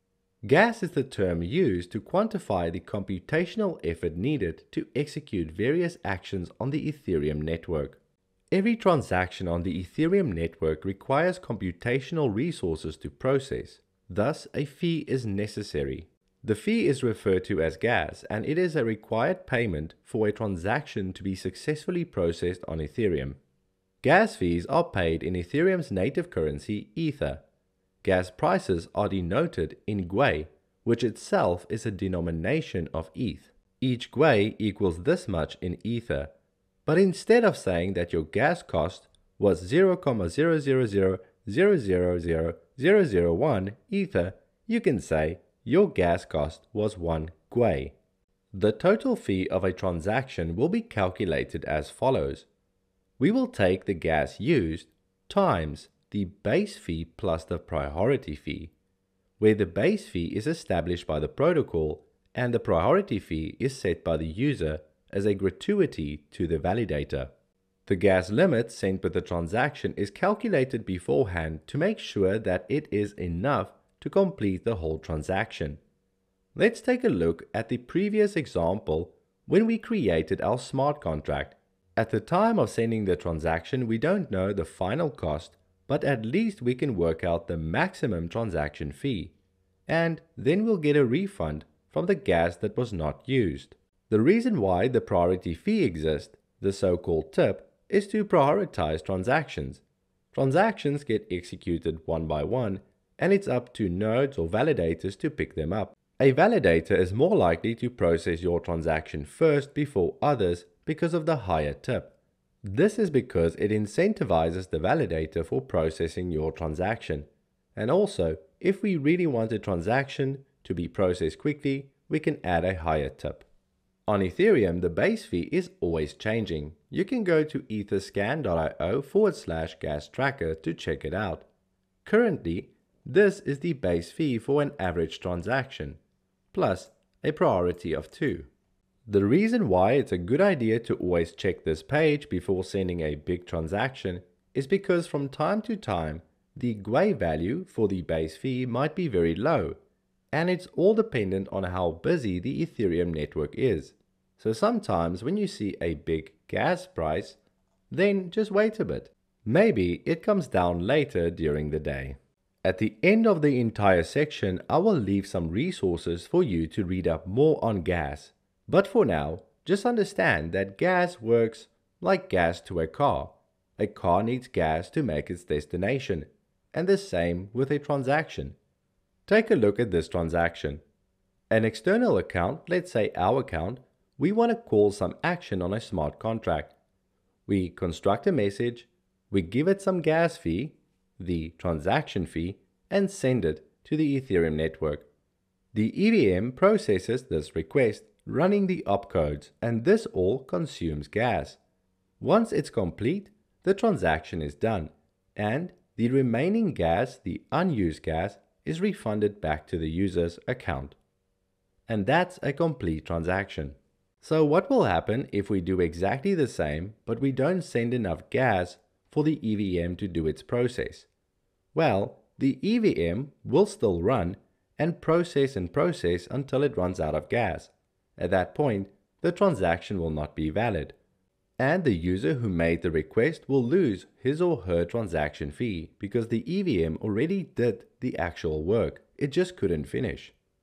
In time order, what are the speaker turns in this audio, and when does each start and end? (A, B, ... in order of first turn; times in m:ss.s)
0:00.4-0:08.0 A
0:08.5-0:23.4 A
0:24.0-0:27.4 A
0:28.0-0:36.3 A
0:36.8-0:47.9 A
0:48.5-0:52.5 A
0:53.2-0:58.7 A
0:59.4-1:07.3 A
1:07.8-1:15.8 A
1:16.5-1:29.3 A
1:29.9-2:03.4 A
2:04.1-2:11.4 A
2:12.0-2:16.0 A
2:16.5-2:18.5 A
2:19.0-2:29.8 A
2:30.3-2:37.4 A
2:37.9-2:58.6 A
2:59.3-3:00.8 A
3:01.5-3:06.7 A
3:07.4-3:15.1 A
3:15.7-3:21.6 A
3:22.2-3:31.0 A
3:31.9-3:41.1 A
3:41.7-3:50.9 A
3:51.6-4:00.3 A